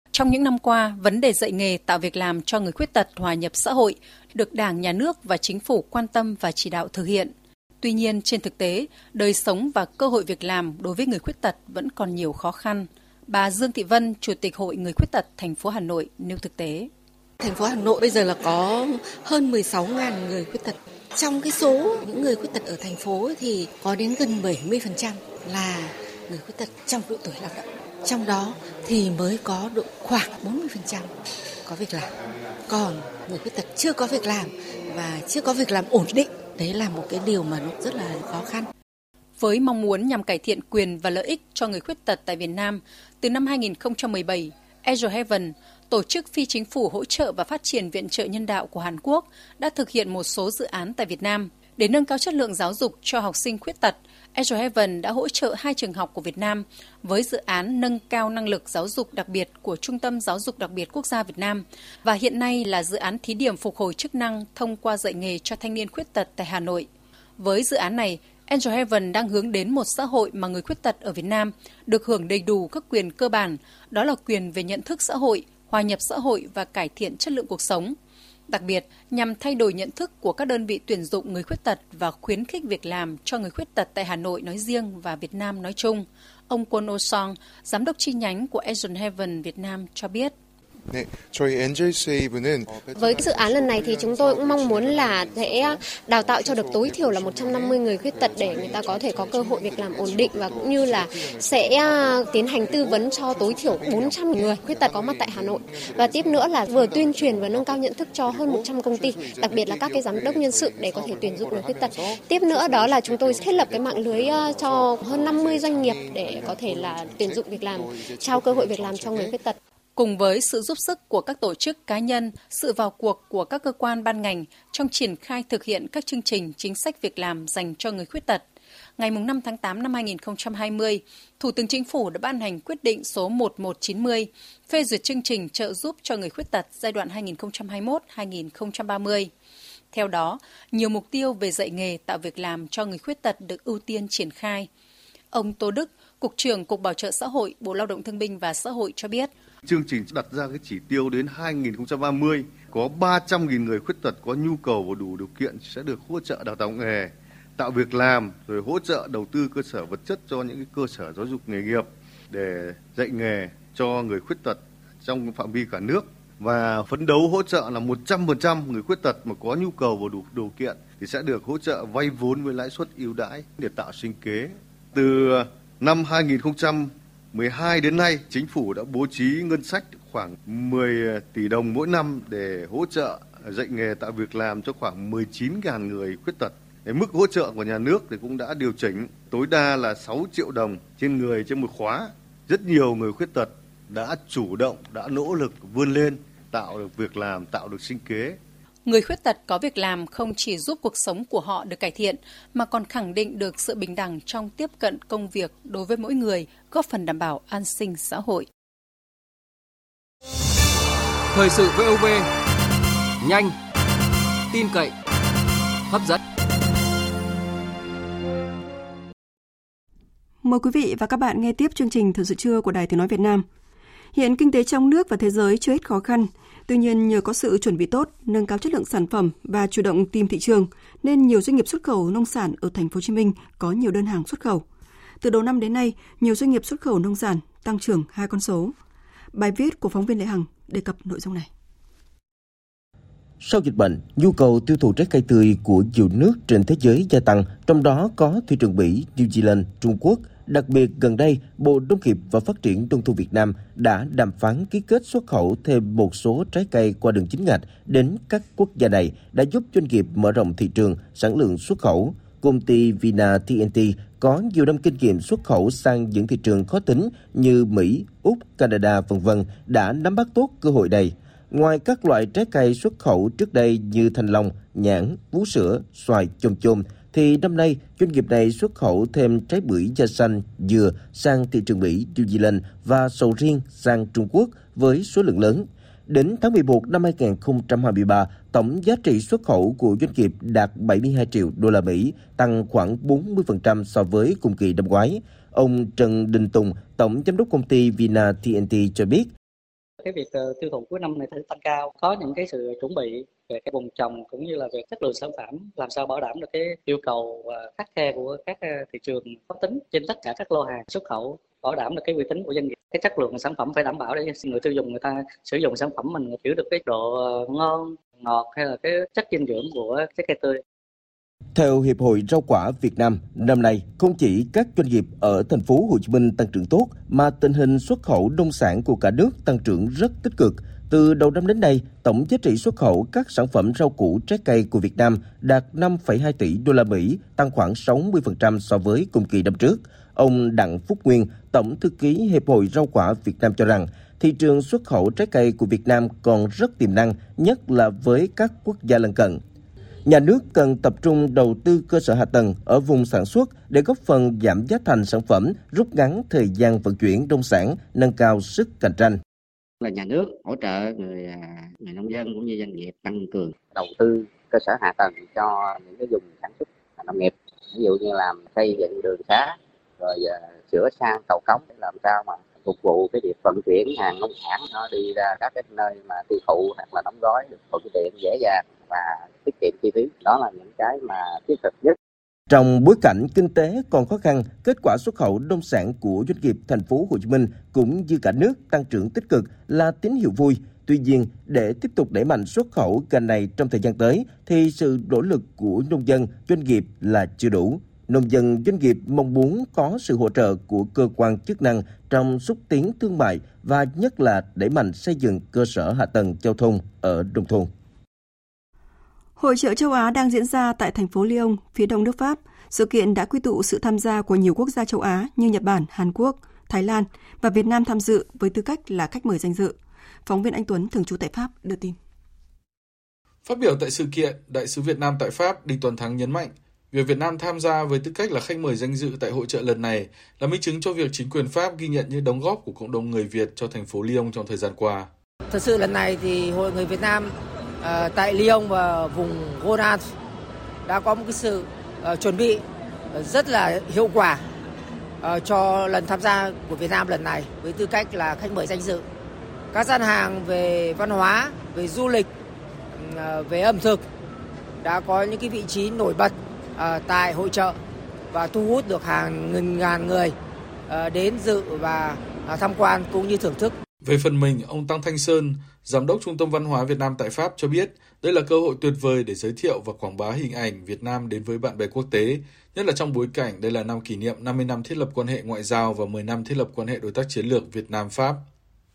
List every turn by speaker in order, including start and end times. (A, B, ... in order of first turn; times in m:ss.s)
0:00.1-0:16.9 A
0:17.4-0:31.1 B
0:31.6-0:32.1 B
0:32.7-0:38.7 B
0:39.4-1:18.0 A
1:18.5-1:30.3 A
1:32.9-1:59.6 C
2:00.0-2:08.4 A
2:09.0-2:19.3 A
2:19.9-2:24.7 A
2:25.3-2:29.3 A
2:29.6-3:18.4 D
3:18.8-3:28.5 A
3:31.3-3:32.3 E
3:33.2-3:33.5 E
3:34.5-3:34.9 E
3:35.9-3:36.2 E
3:40.4-3:43.4 F
3:44.1-3:54.6 F
3:55.2-3:58.7 F
3:59.3-4:01.5 F
4:03.4-4:59.3 G
5:00.0-5:20.6 H
5:21.5-5:49.4 G
5:50.0-5:59.2 G
5:59.8-6:22.0 I
6:22.5-6:47.7 G
6:49.4-7:02.0 F
7:03.4-7:15.1 J
7:15.5-7:20.0 K
7:20.8-7:24.4 K
7:25.2-7:29.0 K
7:29.7-7:32.3 K
7:33.0-7:34.0 K
7:34.8-7:37.8 K
7:38.3-7:40.4 K
7:40.9-7:43.8 K
7:44.0-7:58.4 J